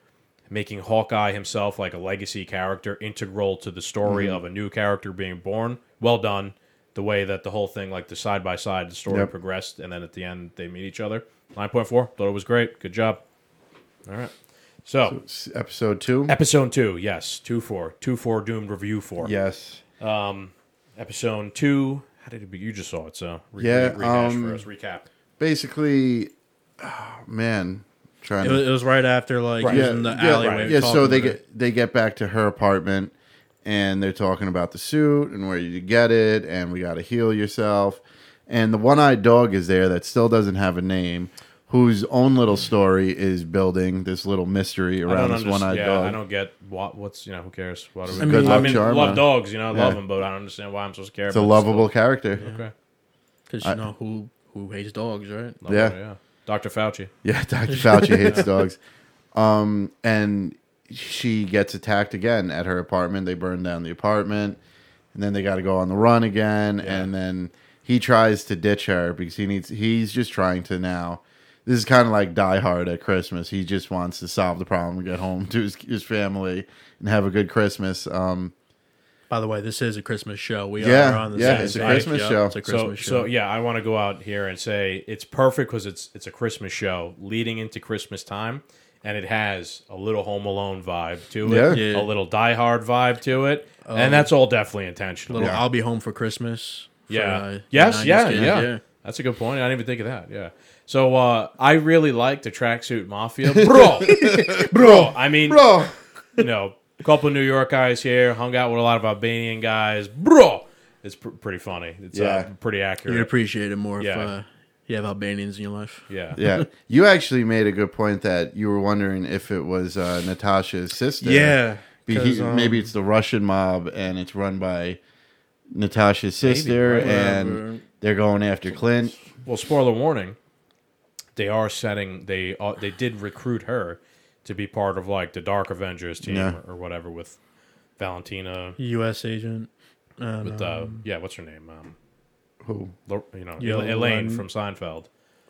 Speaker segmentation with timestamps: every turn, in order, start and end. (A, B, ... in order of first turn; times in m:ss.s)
0:00.5-0:13.2 A
0:04.0-0:04.4 B
0:14.0-0:14.3 A
0:14.8-0:15.2 A
0:15.0-0:16.4 B
0:16.3-0:19.3 A
0:19.2-0:19.8 B
0:20.0-0:25.0 A
0:23.6-0:24.6 B
0:25.4-0:28.6 B
0:28.4-0:31.4 C
0:29.6-0:30.8 A
0:29.6-0:33.1 B
0:33.6-0:46.2 B
0:45.1-0:52.7 A
0:48.1-0:50.0 B
0:48.2-0:48.9 C
0:51.3-0:52.4 B
0:53.5-0:55.6 C
0:55.6-0:57.1 A
0:55.7-0:55.9 B
0:57.2-0:58.8 B
0:57.7-0:58.4 C
0:59.3-1:04.6 B
1:05.1-1:18.5 B
1:06.8-1:07.1 A
1:19.3-1:23.3 C
1:20.8-1:22.5 B
1:21.4-1:35.5 A
1:31.4-1:31.8 B
1:31.7-1:32.1 C
1:33.8-1:34.3 C
1:35.3-1:38.8 C
1:35.4-1:35.6 B
1:37.1-1:45.8 A
1:43.5-1:45.9 B
1:44.0-1:45.1 C
1:46.4-1:53.3 A
1:52.1-1:52.5 B
1:53.1-1:56.6 C
1:54.0-1:54.3 A
1:56.1-1:56.4 A
1:56.4-2:05.0 B
2:01.2-2:02.9 C
2:05.7-2:09.2 B
2:06.4-2:07.1 A
2:07.0-2:07.8 C
2:09.4-2:10.4 A
2:11.4-2:17.4 A
2:16.2-2:16.6 B
2:18.0-2:18.8 A
2:18.8-2:21.0 C
2:20.4-2:21.9 A
2:22.6-2:22.9 B
2:23.1-2:25.1 A
2:23.6-2:24.4 C